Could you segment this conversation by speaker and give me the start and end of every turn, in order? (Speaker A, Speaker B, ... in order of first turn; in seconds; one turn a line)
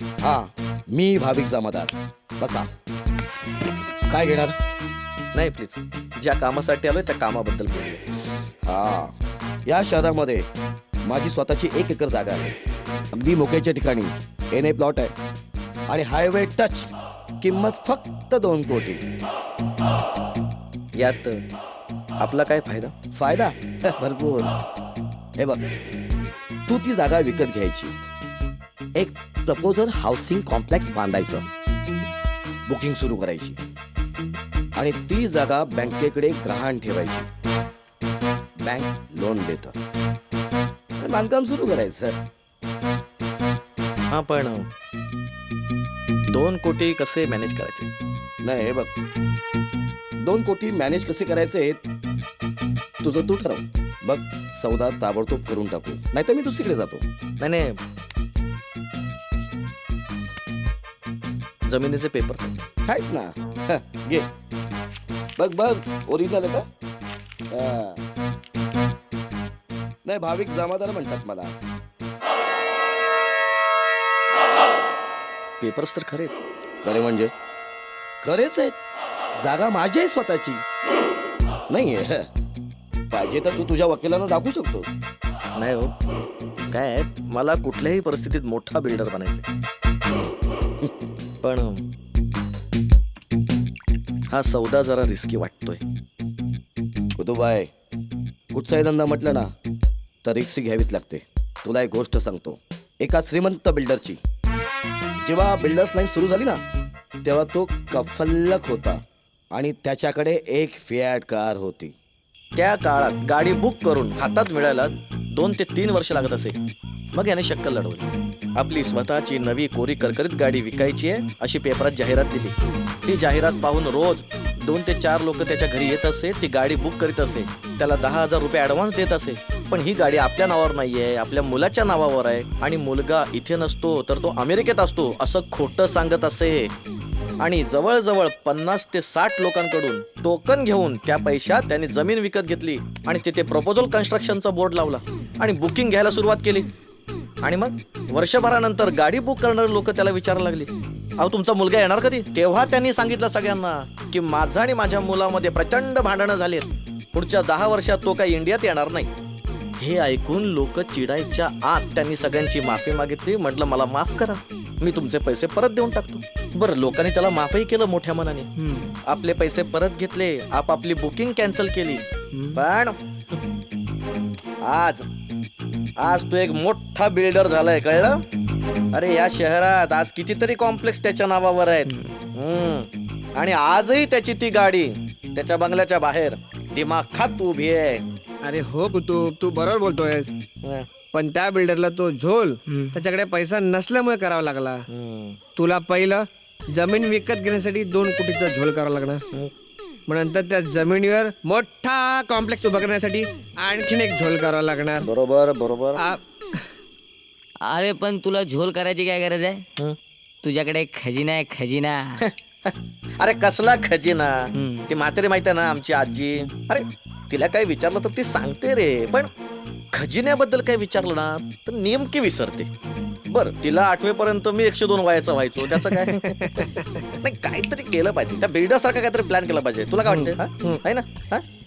Speaker A: 0.2-2.7
Speaker A: 4.1-4.5
Speaker B: 5.3-8.0
Speaker A: 8.6-9.1
Speaker A: 9.7-10.5
Speaker A: 11.1-12.5
Speaker A: 13.1-15.1
Speaker A: 15.9-19.0
Speaker B: 20.9-21.3
Speaker B: 22.2-22.9
Speaker A: 23.1-24.5
Speaker A: 25.4-25.7
Speaker A: 26.7-27.9
Speaker A: 28.9-31.5
Speaker A: 32.7-33.6
Speaker A: 34.8-37.3
Speaker A: 38.6-39.8
Speaker A: 41.0-42.2
Speaker B: 44.1-44.7
Speaker B: 46.3-47.9
Speaker A: 48.4-48.9
Speaker A: 50.2-51.8
Speaker A: 53.0-57.0
Speaker B: 57.4-57.8
Speaker B: 61.6-62.6
Speaker A: 62.9-64.3
Speaker A: 65.4-66.7
Speaker A: 67.5-68.0
Speaker A: 70.0-71.5
Speaker B: 75.6-76.4
Speaker A: 76.8-77.3
Speaker A: 78.2-78.8
Speaker A: 79.4-80.6
Speaker A: 81.7-82.3
Speaker A: 83.1-84.9
Speaker B: 85.5-85.9
Speaker B: 86.7-89.4
Speaker B: 91.4-91.8
Speaker B: 94.3-95.8
Speaker A: 97.2-97.7
Speaker A: 98.5-99.5
Speaker A: 100.2-104.2
Speaker A: 105.2-106.6
Speaker A: 107.2-109.0
Speaker A: 109.5-111.9
Speaker B: 112.5-116.5
Speaker B: 117.1-136.7
Speaker B: 137.4-146.7
Speaker B: 147.4-159.1
Speaker B: 159.8-168.5
Speaker C: 168.6-168.9
Speaker B: 169.1-173.0
Speaker B: 174.6-175.0
Speaker B: 176.0-178.2
Speaker B: 178.9-188.0
Speaker D: 188.4-190.3
Speaker D: 191.1-194.8
Speaker B: 194.9-195.4
Speaker D: 195.6-199.2
Speaker D: 200.1-205.1
Speaker B: 205.0-206.0
Speaker C: 207.6-209.6
Speaker C: 210.4-212.2
Speaker B: 212.2-219.3
Speaker C: 214.6-214.9
Speaker B: 219.9-222.7
Speaker B: 223.3-226.4
Speaker D: 225.6-227.0
Speaker B: 227.2-231.4
Speaker D: 230.0-230.8